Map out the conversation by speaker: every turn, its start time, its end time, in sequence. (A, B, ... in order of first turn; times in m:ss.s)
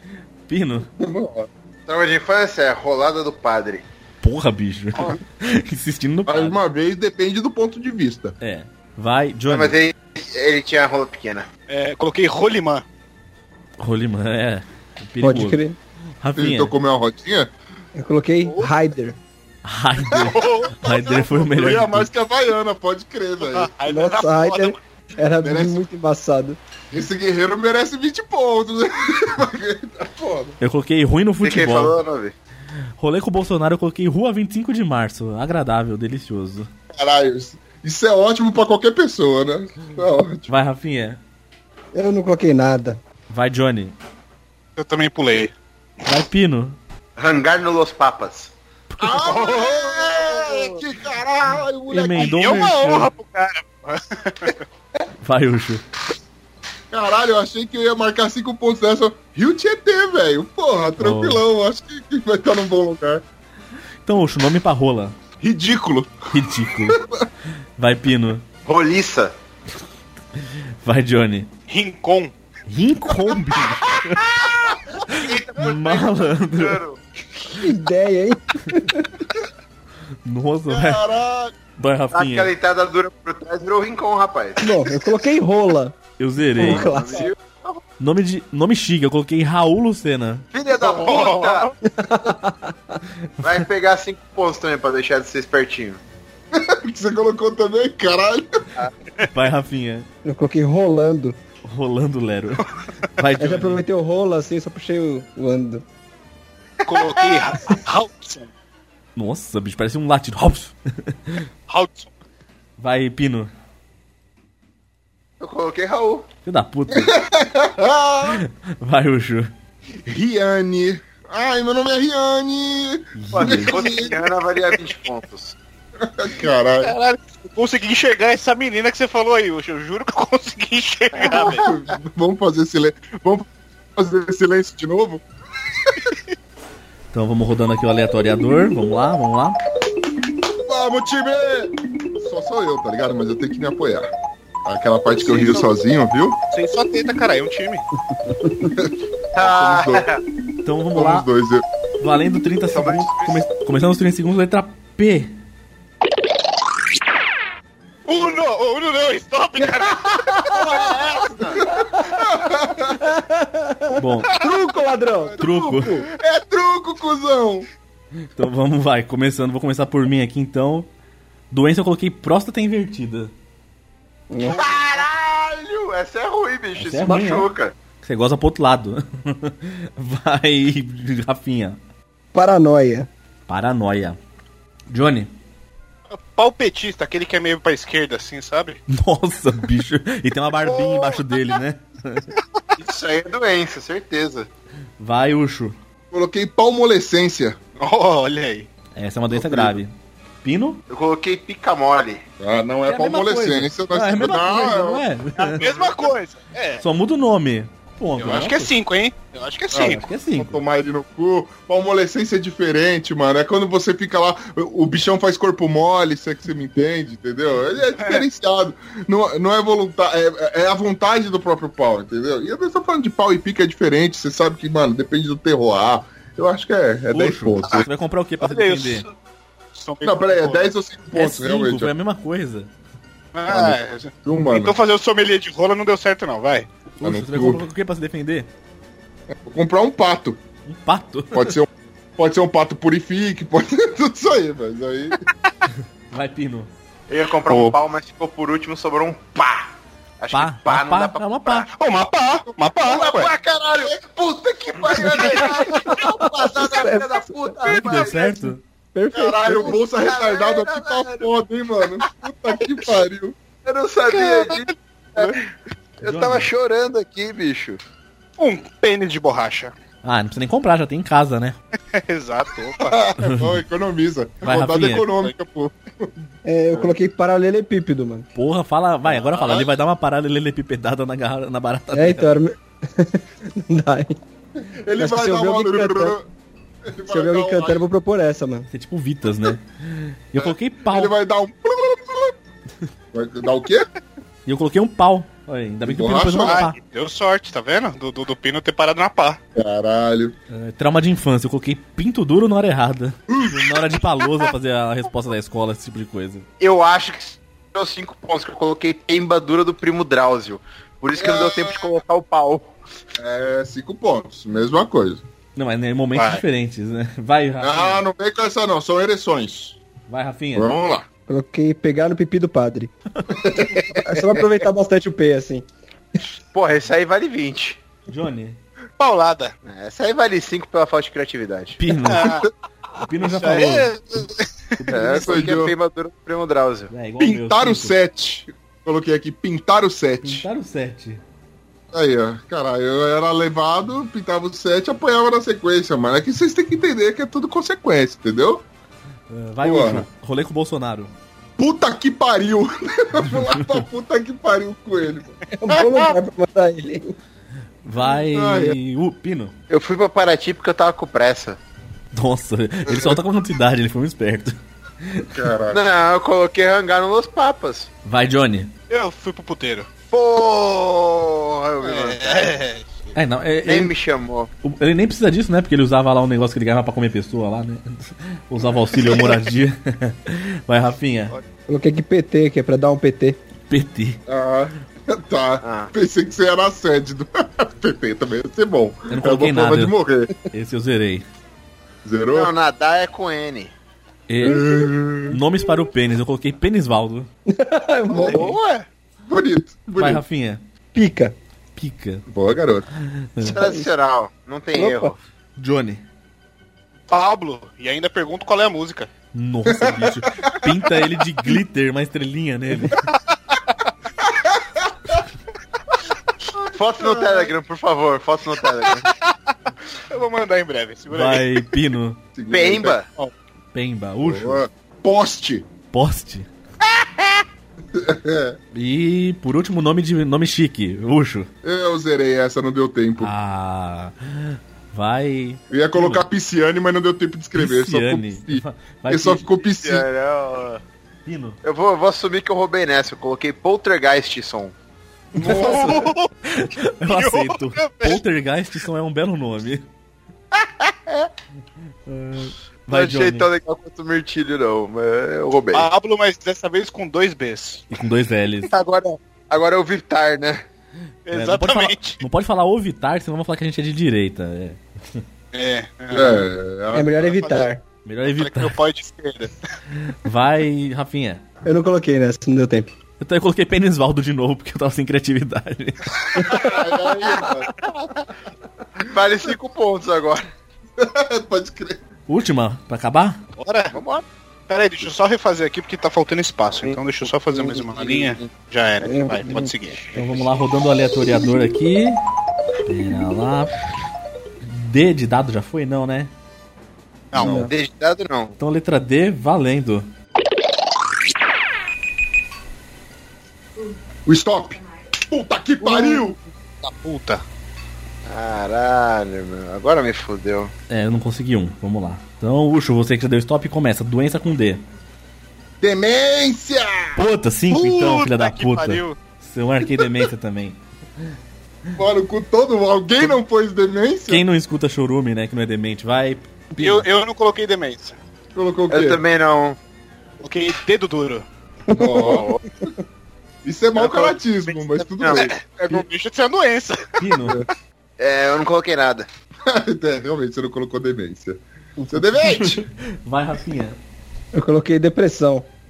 0:00.5-0:00.9 A
0:01.0-0:01.5 B
0:01.9-0:03.8 C
0:04.2-0:06.6 A
0:06.3-0:08.4 B
0:08.4-0:09.8 A
0:09.5-0:11.5 C
0:11.7-0:12.8 D
0:13.8-0:15.6 A
0:15.2-0:15.8 E
0:16.2-0:16.7 A
0:16.4-0:17.5 B
0:18.0-0:19.2 E
0:18.4-0:18.7 D
0:19.6-0:22.1 A
0:20.3-0:20.8 D
0:20.8-0:23.7 B
0:23.4-0:24.8 D
0:23.9-0:26.6 E
0:25.4-0:25.8 B
0:26.9-0:30.6 B
0:30.6-0:32.0 A
0:31.4-0:32.4 C
0:33.0-0:36.7 A
0:36.9-0:40.5 B
0:40.5-0:41.2 A
0:41.9-0:43.0 E
0:43.3-0:44.0 A
0:44.8-0:45.5 D
0:46.1-0:46.8 A
0:47.2-0:48.5 C
0:48.9-0:49.2 A
0:49.0-0:52.7 B
0:49.3-0:49.7 D
0:49.4-0:49.8 C
0:51.9-0:53.1 A
0:52.2-0:54.6 D
0:55.2-0:55.8 A
0:56.9-1:03.2 B
1:01.0-1:01.4 A
1:04.0-1:05.2 A
1:05.4-1:06.2 B
1:06.3-1:07.0 A
1:06.9-1:07.2 B
1:07.8-1:08.4 A
1:08.7-1:09.3 C
1:10.8-1:11.5 A
1:11.7-1:12.3 D
1:12.7-1:14.4 A
1:14.7-1:17.0 C
1:15.1-1:16.8 A
1:17.5-1:19.1 E
1:20.3-1:21.0 A
1:20.7-1:21.5 B
1:21.8-1:22.5 A
1:22.1-1:24.7 C
1:24.6-1:26.0 E
1:26.2-1:27.0 A
1:26.6-1:27.3 E
1:26.6-1:27.8 C
1:28.0-1:30.5 A
1:30.5-1:31.7 C
1:30.8-1:31.7 D
1:31.9-1:33.0 E
1:33.4-1:36.0 C
1:36.5-1:38.6 B
1:39.3-1:40.1 A
1:40.2-1:41.4 E
1:41.7-1:43.8 A
1:43.4-1:45.8 E
1:46.9-1:48.5 D
1:49.2-1:51.4 A
1:51.7-1:52.1 D
1:52.8-1:53.5 A
1:55.4-1:56.3 C
1:56.4-1:57.2 A
1:56.9-1:58.4 B
1:58.2-1:59.5 A
2:00.0-2:04.2 B
2:03.2-2:03.8 A
2:03.3-2:05.6 C
2:06.0-2:07.0 B
2:06.8-2:11.7 D
2:11.2-2:15.2 B
2:11.3-2:11.6 C
2:17.1-2:19.6 A
2:20.6-2:24.1 B
2:24.6-2:26.4 B
2:25.3-2:25.6 D
2:26.5-2:27.8 D
2:28.8-2:30.1 B
2:29.3-2:30.2 C
2:30.6-2:31.3 A
2:30.9-2:31.6 B
2:32.0-2:35.4 A
2:32.7-2:33.4 C
2:38.1-2:40.6 D
2:40.4-2:41.6 C
2:41.6-2:43.1 B
2:41.6-2:45.9 E
2:43.9-2:44.3 A
2:45.1-2:47.7 B
2:45.4-2:46.0 A
2:48.4-2:50.9 A
2:51.5-2:53.3 A
2:54.3-2:54.6 E
2:54.4-2:55.0 D
2:54.6-2:57.8 C
2:56.8-2:57.5 A
2:58.0-3:01.8 A
3:02.3-3:03.1 E
3:03.5-3:04.2 A
3:04.9-3:05.3 A
3:06.2-3:08.8 D
3:08.9-3:12.3 A
3:12.8-3:14.5 C
3:15.0-3:15.8 A
3:16.1-3:17.6 B
3:17.8-3:18.7 D
3:19.0-3:20.8 A
3:19.3-3:19.8 B
3:20.9-3:22.2 C
3:22.4-3:25.0 B
3:22.9-3:25.6 A
3:25.6-3:26.8 D
3:26.8-3:28.7 A
3:28.2-3:30.0 D
3:29.7-3:47.9 B
3:29.8-3:30.6 A
3:38.0-3:38.2 D
3:47.1-3:49.1 A
3:48.4-3:49.1 D
3:49.8-3:50.7 D
3:50.0-3:51.9 B
3:51.2-3:52.7 A
3:53.3-3:56.7 D
3:53.5-3:54.8 B
3:57.0-3:58.5 A
3:57.0-3:57.6 B
3:59.3-4:00.4 B
4:00.7-4:01.6 A
4:01.3-4:05.2 B
4:06.1-4:06.7 A
4:07.1-4:09.7 C
4:07.5-4:07.7 D
4:10.2-4:11.7 C
4:10.3-4:11.7 A
4:11.7-4:13.3 D
4:12.8-4:18.4 C
4:15.1-4:17.9 E
4:17.6-4:18.6 A
4:18.9-4:19.8 E
4:19.1-4:23.4 B
4:19.3-4:21.3 C
4:23.6-4:25.4 C
4:24.2-4:24.6 D
4:26.0-4:26.5 A
4:26.0-4:27.8 C
4:28.4-4:29.7 D
4:30.0-4:31.6 A
4:31.9-4:33.0 D
4:32.8-4:36.1 B
4:33.2-4:33.6 A
4:34.4-4:35.1 A
4:36.4-4:38.3 E
4:38.4-4:42.3 A
4:39.3-4:39.7 B
4:41.9-4:44.2 E
4:44.6-4:46.3 B
4:45.0-4:46.2 E
4:46.8-4:47.8 B
4:47.1-4:48.7 E
4:48.7-4:51.1 A
4:50.4-4:52.4 B
4:53.1-4:53.9 B
4:54.5-4:56.8 A
4:55.8-4:56.6 B
4:56.4-4:59.4 D
4:59.6-5:00.4 B
5:00.5-5:06.5 A
5:03.3-5:03.8 B
5:06.6-5:12.7 C
5:11.2-5:11.9 B
5:13.2-5:15.2 B
5:15.6-5:18.0 A
5:16.2-5:16.4 D
5:17.6-5:19.8 B
5:20.1-5:20.7 A
5:20.6-5:21.1 B
5:21.3-5:22.9 E
5:23.3-5:24.0 B
5:23.9-5:25.7 E
5:26.5-5:27.8 C
5:28.1-5:28.6 A
5:29.0-5:29.5 D
5:29.7-5:31.8 C
5:31.8-5:32.4 A
5:32.1-5:32.5 D
5:33.0-5:33.9 A
5:33.2-5:34.5 D
5:34.8-5:35.5 A
5:34.9-5:36.9 C
5:35.0-5:35.8 B
5:36.9-5:38.0 A
5:37.2-5:40.5 B
5:40.2-5:41.2 A
5:41.9-5:48.6 B
5:49.3-5:51.1 A
5:49.6-5:50.1 B
5:51.6-5:55.4 B
5:53.5-5:53.8 A
5:55.6-5:57.1 E
5:57.8-5:59.5 A
5:58.1-5:58.8 B
5:59.7-6:01.6 C
6:02.1-6:05.3 A
6:02.9-6:03.2 B
6:05.3-6:05.8 B
6:05.7-6:07.9 C
6:08.1-6:08.7 A
6:08.9-6:09.9 D
6:10.1-6:12.6 C
6:11.8-6:13.0 D
6:13.1-6:13.9 A
6:13.6-6:14.5 C
6:14.6-6:21.4 A
6:21.7-6:23.4 E
6:23.7-6:24.2 A
6:24.3-6:30.3 B
6:25.6-6:25.9 C
6:29.1-6:30.0 A
6:30.5-6:31.3 A
6:32.0-6:32.5 B
6:32.3-6:33.7 C
6:34.3-6:34.7 A
6:34.4-6:35.4 B
6:35.3-6:37.3 A
6:37.5-6:38.5 E
6:38.2-6:38.7 D
6:38.2-6:38.8 C
6:39.3-6:40.2 B
6:40.0-6:40.6 A
6:40.9-6:41.4 E
6:41.8-6:42.2 A
6:42.3-6:42.9 B
6:43.0-6:43.6 A
6:43.4-6:45.2 C
6:43.5-6:43.9 E
6:44.7-6:45.1 E
6:45.6-6:46.0 A
6:47.1-6:49.1 D
6:49.3-6:53.0 A
6:49.7-6:50.7 B
6:54.2-6:54.9 B
6:56.5-6:57.5 B
6:56.7-6:59.1 C
7:00.1-7:01.6 D
7:01.1-7:02.2 A
7:02.4-7:03.3 B
7:02.5-7:03.1 C
7:03.7-7:04.6 A
7:04.2-7:05.7 B
7:05.9-7:06.5 A
7:07.9-7:08.6 B
7:08.7-7:11.5 A
7:11.6-7:13.3 B
7:13.2-7:16.2 A
7:15.7-7:20.1 B
7:17.6-7:19.4 A
7:19.6-7:20.8 C
7:21.3-7:21.6 A
7:21.6-7:24.8 C
7:25.4-7:26.3 D
7:25.4-7:29.9 A
7:27.0-7:28.2 D
7:30.5-7:31.3 C
7:32.1-7:33.5 A
7:32.9-7:35.9 C
7:35.7-7:37.9 D
7:37.9-7:38.7 A
7:38.7-7:40.6 C
7:41.3-7:42.2 D
7:41.3-7:45.2 A
7:45.5-7:46.5 D
7:46.1-7:47.5 B
7:46.9-7:47.8 E
7:48.1-7:48.8 A
7:48.4-7:49.6 D
7:50.1-7:51.4 A
7:51.6-7:52.9 E
7:53.2-7:56.1 A
7:56.3-7:57.7 B
7:56.4-7:57.4 E
7:57.5-7:58.1 C
7:59.0-8:00.5 C
8:01.0-8:02.0 B
8:02.3-8:03.4 A
8:03.6-8:04.0 D
8:03.9-8:04.2 C
8:04.7-8:10.4 D
8:07.6-8:08.4 C
8:09.0-8:09.7 E
8:10.2-8:12.2 A
8:12.9-8:13.7 A
8:14.6-8:16.3 A
8:17.3-8:17.6 D
8:17.4-8:17.7 E
8:17.4-8:18.6 C
8:18.6-8:20.1 A
8:24.3-8:26.4 B
8:26.8-8:27.4 D
8:28.3-8:30.7 C
8:30.9-8:34.8 A
8:35.8-8:37.2 B
8:37.2-8:40.8 A
8:37.7-8:39.2 D
8:42.0-8:44.4 B
8:44.3-8:47.0 A
8:46.8-8:48.2 D
8:48.6-8:49.2 B
8:48.9-8:49.8 C
8:50.4-8:51.4 D
8:51.9-8:52.5 E
8:51.9-8:52.6 B
8:52.2-8:52.6 C
8:53.6-8:55.5 B
8:54.0-8:57.2 D
8:55.2-8:55.5 C
8:57.2-8:57.6 A
8:58.2-8:59.3 C
8:59.7-9:02.8 B
9:02.4-9:04.0 A
9:04.5-9:05.7 E